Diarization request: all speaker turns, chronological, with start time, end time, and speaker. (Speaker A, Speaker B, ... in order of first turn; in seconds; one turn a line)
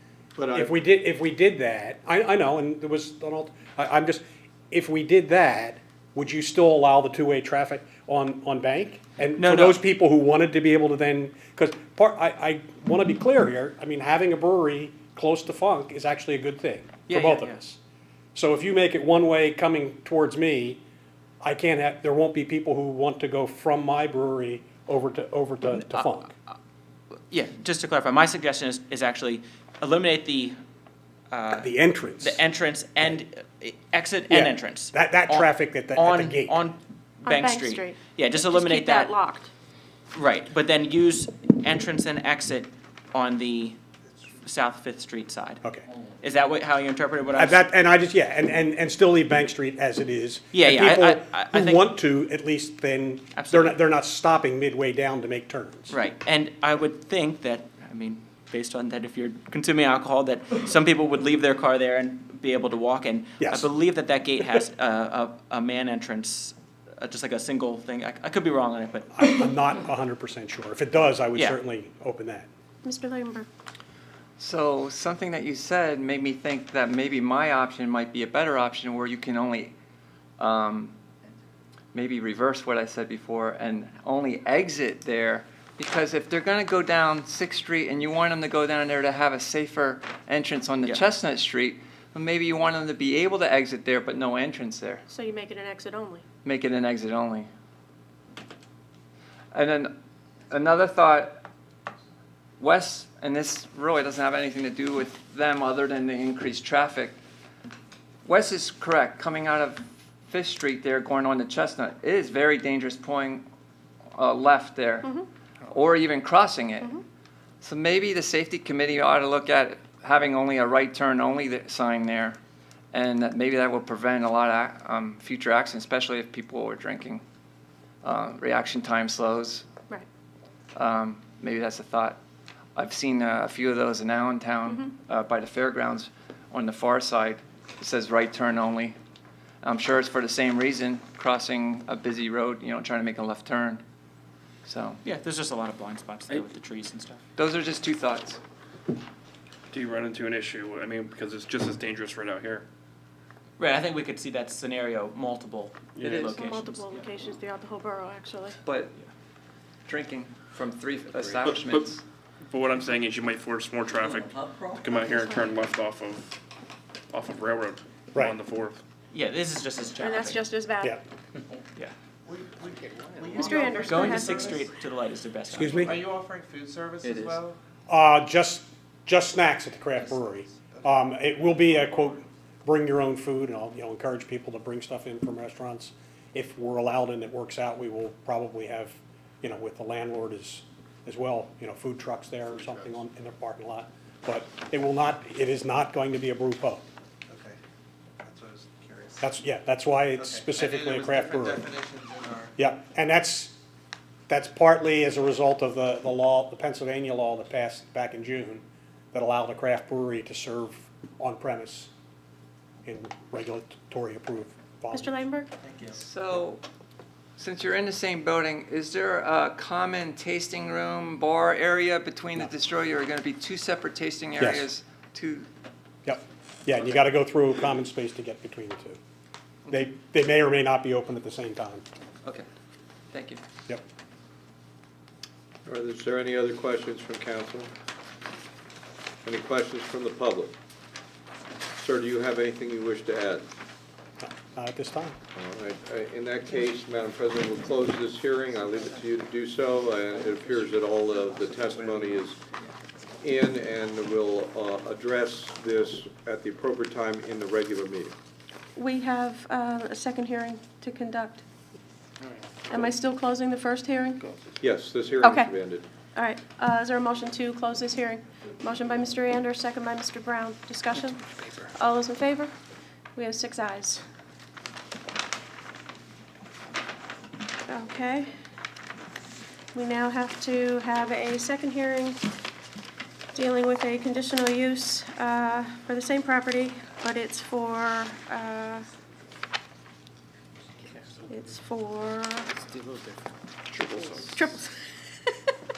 Speaker A: 0.4-0.7
Speaker B: 0.5-17.8
Speaker C: 9.3-9.8
Speaker C: 17.1-17.6
Speaker B: 18.3-20.8
Speaker B: 21.4-26.3
Speaker C: 27.3-30.6
Speaker C: 31.3-39.1
Speaker B: 31.5-32.4
Speaker B: 34.3-36.6
Speaker D: 37.2-39.5
Speaker C: 40.1-43.8
Speaker C: 44.4-45.6
Speaker C: 46.2-47.6
Speaker B: 47.3-55.9
Speaker C: 50.5-51.9
Speaker C: 53.3-53.8
Speaker C: 55.9-69.2
Speaker B: 63.4-63.7
Speaker B: 69.1-72.5
Speaker D: 72.8-73.5
Speaker E: 74.4-79.7
Speaker E: 80.4-80.9
Speaker E: 81.9-95.0
Speaker D: 95.1-96.2
Speaker E: 96.4-97.5
Speaker E: 99.5-99.9
Speaker E: 100.5-101.4
Speaker E: 102.6-107.2
Speaker E: 108.2-113.4
Speaker E: 114.1-117.0
Speaker E: 117.6-122.4
Speaker E: 122.9-127.2
Speaker E: 128.0-129.7
Speaker E: 130.7-132.2
Speaker E: 132.8-138.9
Speaker D: 134.7-134.9
Speaker E: 139.6-143.8
Speaker E: 144.6-145.0
Speaker C: 145.0-147.2
Speaker E: 147.3-148.4
Speaker F: 149.7-152.7
Speaker C: 153.6-156.9
Speaker F: 155.9-156.2
Speaker E: 156.0-156.4
Speaker D: 156.3-158.6
Speaker E: 158.6-158.9
Speaker E: 159.8-162.0
Speaker F: 161.4-161.9
Speaker F: 162.5-166.2
Speaker G: 164.2-164.8
Speaker D: 164.9-165.3
Speaker F: 167.1-168.8
Speaker C: 169.1-170.5
Speaker D: 170.0-171.0
Speaker G: 172.3-174.7
Speaker D: 173.3-174.6
Speaker C: 173.8-176.0
Speaker B: 175.5-176.0
Speaker G: 175.9-177.6
Speaker E: 177.0-177.4
Speaker B: 177.9-196.8
Speaker G: 197.3-197.6
Speaker G: 198.2-199.2
Speaker B: 199.2-201.7
Speaker G: 200.2-202.5
Speaker B: 202.6-203.6
Speaker B: 204.3-211.9
Speaker B: 212.8-215.2
Speaker D: 214.9-215.5
Speaker C: 215.6-216.0
Speaker E: 215.9-216.6
Speaker E: 217.4-225.5
Speaker B: 224.4-224.7
Speaker B: 226.0-229.0
Speaker B: 229.7-231.8
Speaker E: 233.1-233.4
Speaker A: 235.7-237.7
Speaker A: 239.2-240.5
Speaker A: 241.7-243.5
Speaker B: 244.2-245.2
Speaker A: 245.3-252.4
Speaker G: 251.6-252.0
Speaker A: 253.2-258.1
Speaker D: 258.7-261.4
Speaker D: 262.7-264.2
Speaker A: 264.6-265.9
Speaker D: 265.2-265.5
Speaker D: 266.1-272.5
Speaker D: 273.1-274.0
Speaker D: 277.6-278.3
Speaker D: 279.7-282.2
Speaker D: 283.3-288.9
Speaker D: 291.2-292.5
Speaker D: 294.3-294.7
Speaker D: 295.2-295.5